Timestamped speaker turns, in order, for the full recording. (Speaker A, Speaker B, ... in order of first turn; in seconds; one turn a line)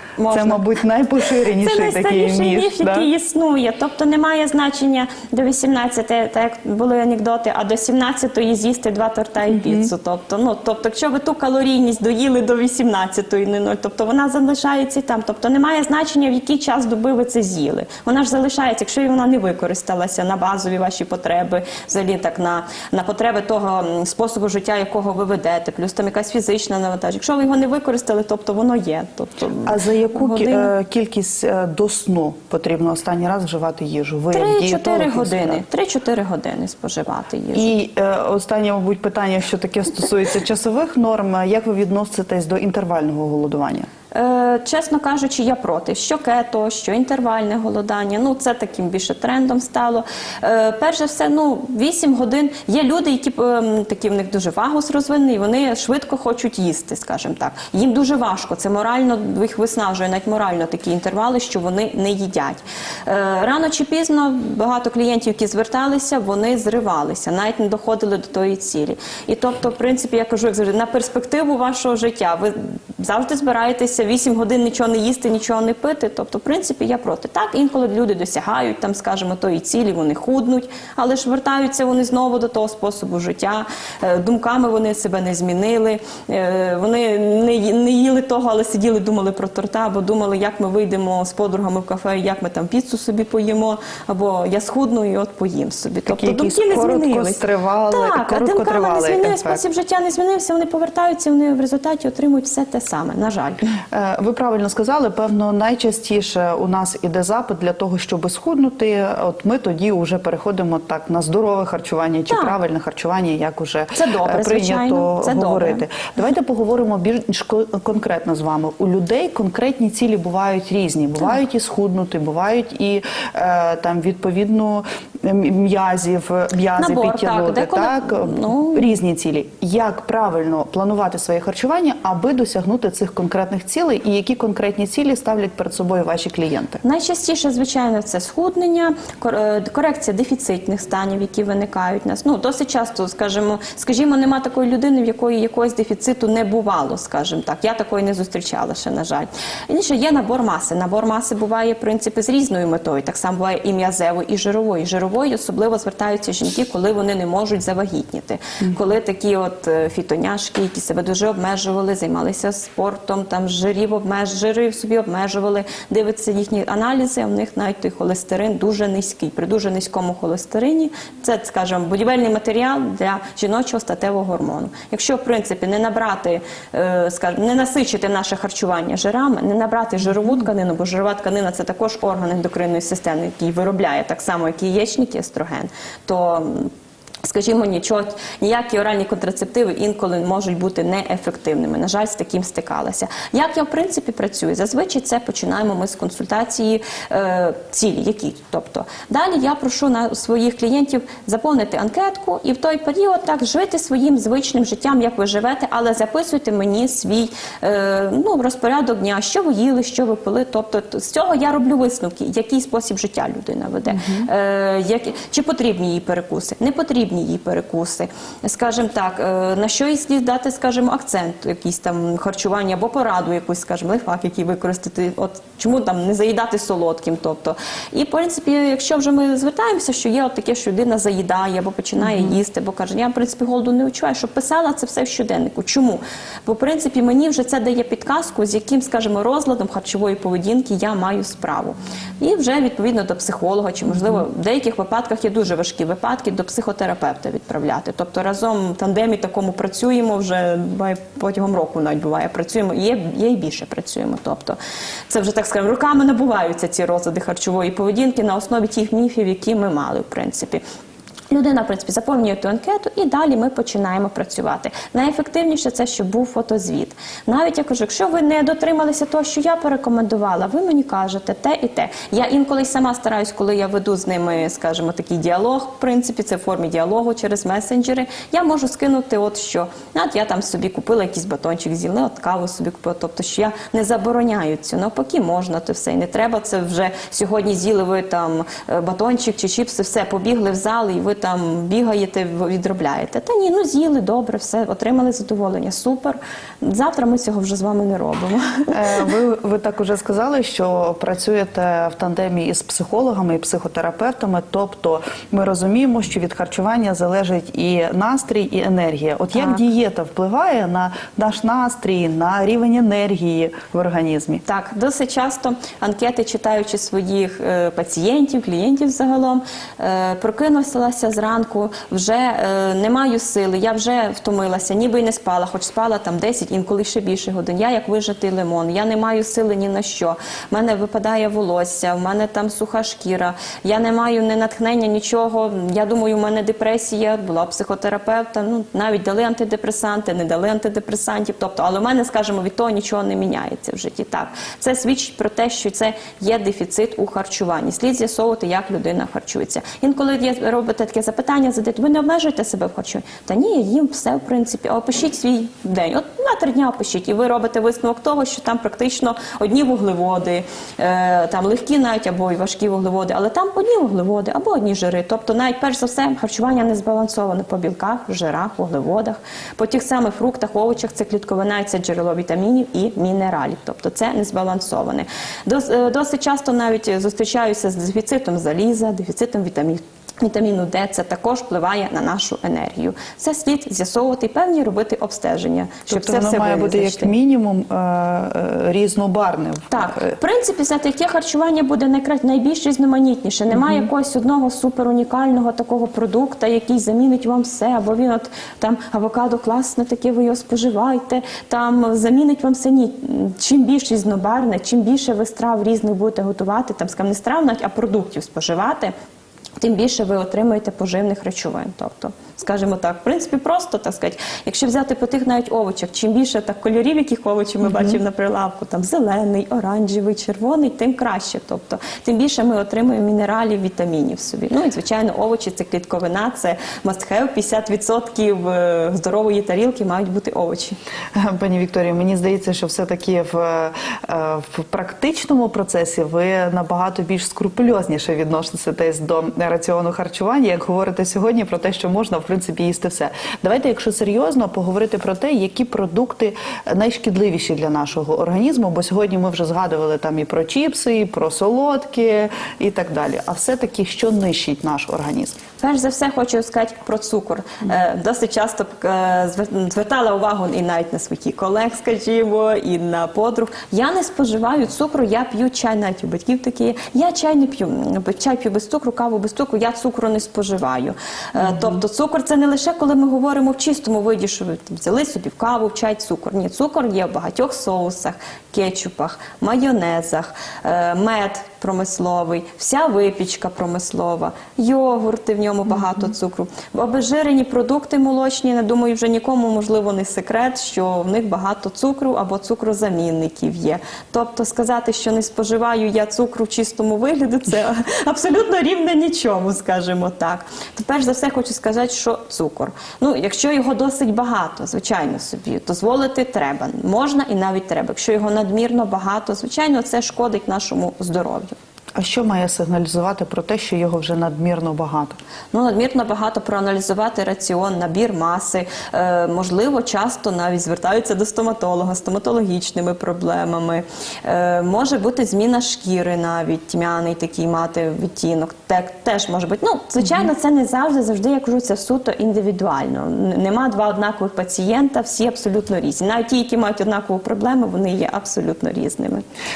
Speaker A: 0.2-0.6
Speaker B: 0.3-3.1
Speaker A: 1.6-30.7
Speaker B: 9.5-9.9
Speaker B: 29.6-35.6
Speaker A: 34.3-37.7
Speaker B: 37.5-43.9
Speaker A: 44.1-103.6
Speaker B: 96.1-99.6
Speaker B: 103.9-136.8
Speaker A: 114.0-115.8
Speaker A: 126.8-129.0
Speaker A: 136.8-186.7
Speaker A: 187.2-254.6
Speaker B: 213.9-214.3
Speaker B: 232.0-232.4
Speaker A: 255.1-260.6
Speaker A: 261.3-299.1
Speaker B: 298.7-314.4
Speaker A: 314.4-387.1
Speaker B: 385.9-390.1
Speaker A: 389.7-408.9
Speaker B: 393.5-393.9
Speaker A: 409.6-430.8
Speaker B: 417.6-418.0
Speaker B: 431.1-455.4
Speaker A: 455.6-511.5
Speaker B: 471.4-471.8
Speaker B: 512.0-515.2
Speaker A: 515.5-539.2